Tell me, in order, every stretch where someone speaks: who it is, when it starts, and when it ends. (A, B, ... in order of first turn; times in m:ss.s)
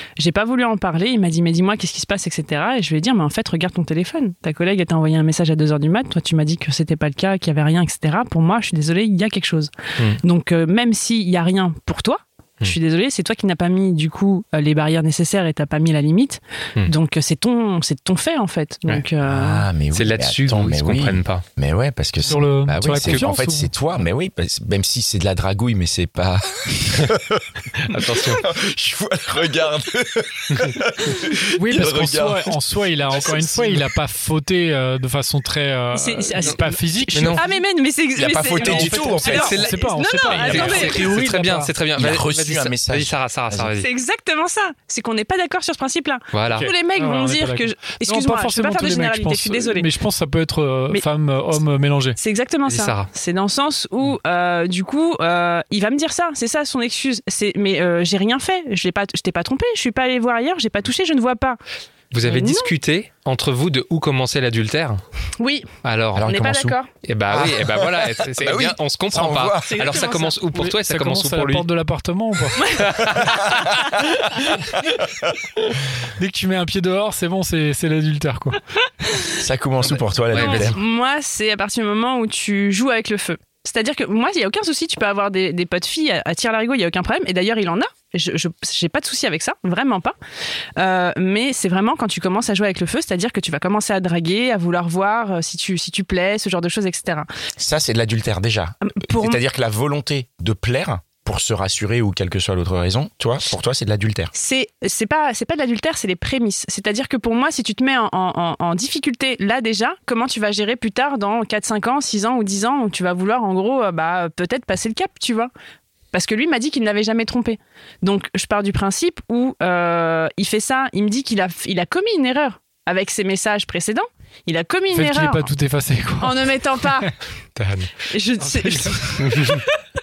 0:00.2-0:19.6 A
0:19.2-0:33.9 B
0:19.9-0:21.4 C
0:22.2-0:23.7 D
0:27.9-0:28.4 C
0:31.6-0:37.5 D
0:35.9-0:41.0 A
0:37.1-0:37.4 C
0:38.2-0:39.6 B
0:38.5-0:41.7 D
0:39.2-0:43.9 C
0:40.5-0:40.8 B
0:42.0-0:43.7 B
0:43.7-0:49.9 A
0:46.3-0:46.7 C
0:46.5-0:52.2 D
0:52.2-1:01.6 A
0:52.6-0:53.1 C
1:02.1-1:05.0 C
1:02.2-1:02.7 A
1:05.4-1:05.7 A
1:05.8-1:06.3 C
1:06.2-1:06.8 B
1:06.2-1:06.9 A
1:07.0-1:11.6 C
1:07.3-1:09.8 B
1:09.6-1:10.4 A
1:10.5-1:12.8 D
1:12.6-1:14.0 A
1:12.8-1:13.4 C
1:13.2-1:13.6 B
1:14.8-1:15.3 B
1:16.2-1:18.6 D
1:19.1-1:19.3 A
1:19.4-1:20.8 B
1:20.3-1:20.7 C
1:20.3-1:30.2 A
1:30.8-1:37.3 A
1:37.6-1:44.3 B
1:38.8-1:39.4 A
1:44.3-1:55.5 A
1:56.1-2:05.5 A
2:04.9-2:07.1 D
2:06.2-2:07.1 A
2:07.6-2:07.9 C
2:08.1-2:09.8 A
2:08.4-2:09.1 D
2:09.2-2:09.6 C